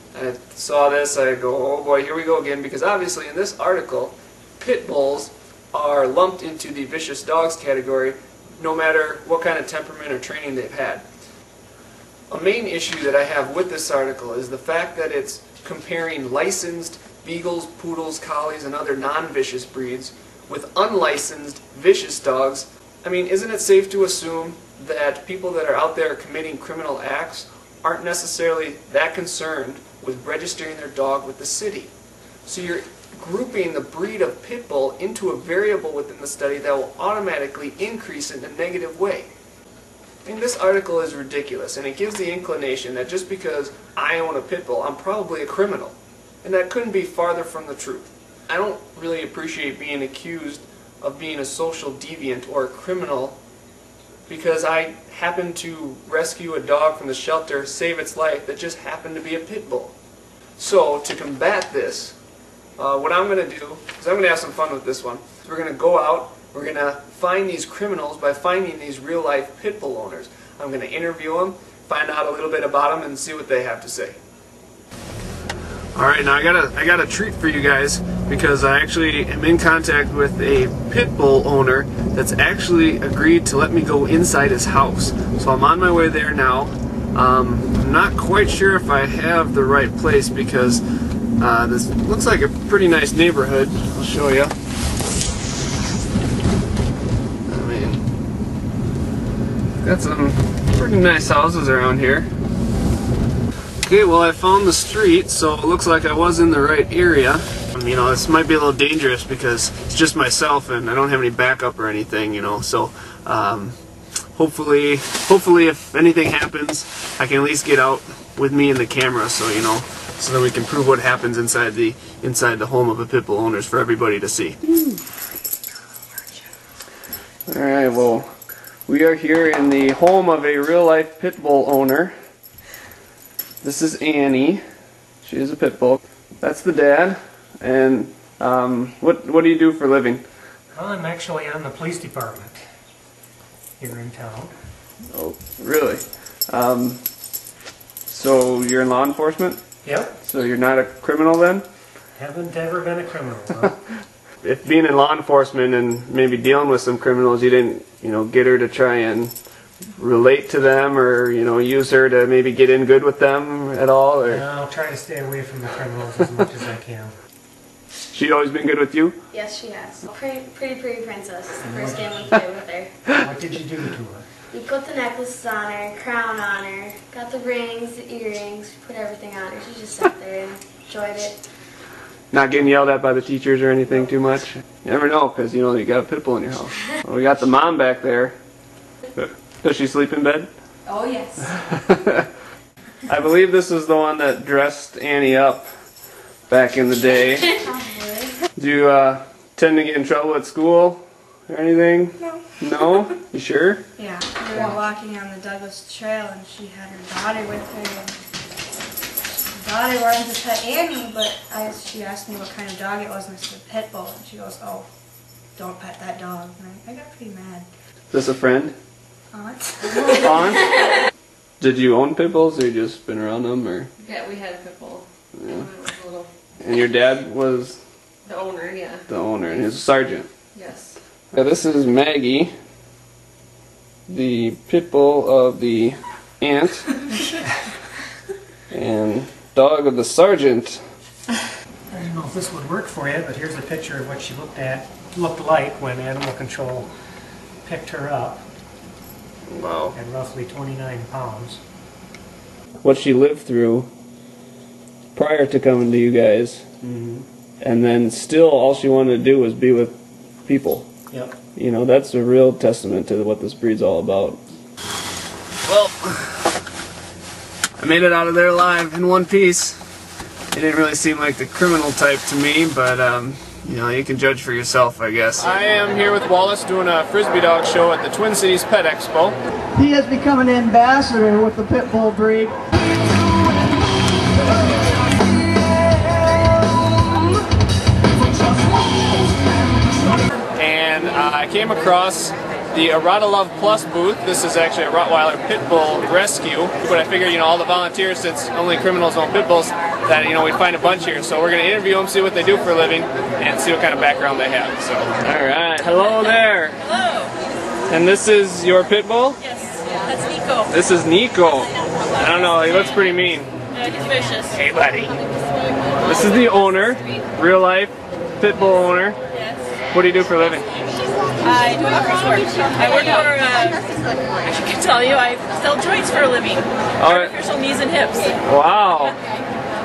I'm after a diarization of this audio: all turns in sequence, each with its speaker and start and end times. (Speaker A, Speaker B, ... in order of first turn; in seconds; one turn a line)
Speaker A: 0.1-11.0
Speaker A: 12.3-31.9
Speaker A: 32.5-39.3
Speaker A: 40.2-53.4
Speaker A: 54.3-59.9
Speaker A: 60.6-62.2
Speaker A: 62.8-74.2
Speaker A: 76.0-90.8
Speaker A: 91.4-94.5
Speaker A: 97.5-98.0
Speaker A: 99.8-102.3
Speaker A: 103.8-113.8
Speaker A: 114.3-124.6
Speaker A: 127.5-128.3
Speaker A: 128.9-132.1
Speaker A: 133.6-134.6
Speaker A: 135.2-140.2
Speaker B: 140.7-142.6
Speaker B: 143.8-144.5
Speaker A: 145.1-147.0
Speaker A: 148.1-149.6
Speaker B: 149.8-150.2
Speaker A: 150.2-151.6
Speaker B: 152.2-153.8
Speaker A: 154.4-159.3
Speaker A: 160.0-164.4
Speaker B: 164.3-167.1
Speaker A: 168.1-169.2
Speaker C: 169.3-172.9
Speaker B: 171.7-172.0
Speaker B: 173.1-174.3
Speaker C: 174.5-181.4
Speaker A: 182.3-188.3
Speaker A: 189.2-190.5
Speaker A: 191.6-192.2
Speaker A: 193.1-195.7
Speaker A: 196.5-197.5
Speaker A: 198.6-203.8
Speaker D: 204.0-208.2
Speaker D: 209.5-214.9
Speaker D: 215.6-217.7
Speaker A: 218.1-218.7
Speaker D: 219.3-220.2
Speaker A: 220.0-220.8
Speaker A: 221.6-223.9
Speaker E: 224.0-226.3
Speaker A: 225.4-225.6
Speaker A: 226.6-227.8
Speaker E: 228.3-229.0
Speaker A: 229.1-230.3
Speaker E: 230.6-230.9
Speaker A: 231.3-232.5
Speaker A: 234.1-237.0
Speaker A: 238.7-240.8
Speaker B: 241.9-246.9
Speaker B: 247.6-248.4
Speaker A: 249.5-250.0
Speaker B: 249.9-251.6
Speaker A: 252.8-253.9
Speaker A: 255.1-256.6
Speaker B: 256.8-257.2
Speaker A: 257.6-260.9
Speaker A: 261.5-264.4
Speaker A: 265.6-266.5
Speaker A: 267.8-269.8
Speaker A: 270.5-279.4
Speaker F: 279.7-282.6
Speaker A: 290.6-306.8
Speaker G: 306.8-307.3
Speaker A: 307.9-309.4
Speaker G: 309.4-310.7
Speaker A: 310.7-313.5
Speaker G: 313.7-314.5
Speaker A: 314.5-315.2
Speaker A: 316.0-319.2
Speaker G: 319.3-319.6
Speaker A: 319.9-320.6
Speaker G: 321.4-323.8
Speaker G: 324.4-328.4
Speaker A: 327.0-327.3
Speaker A: 328.4-329.1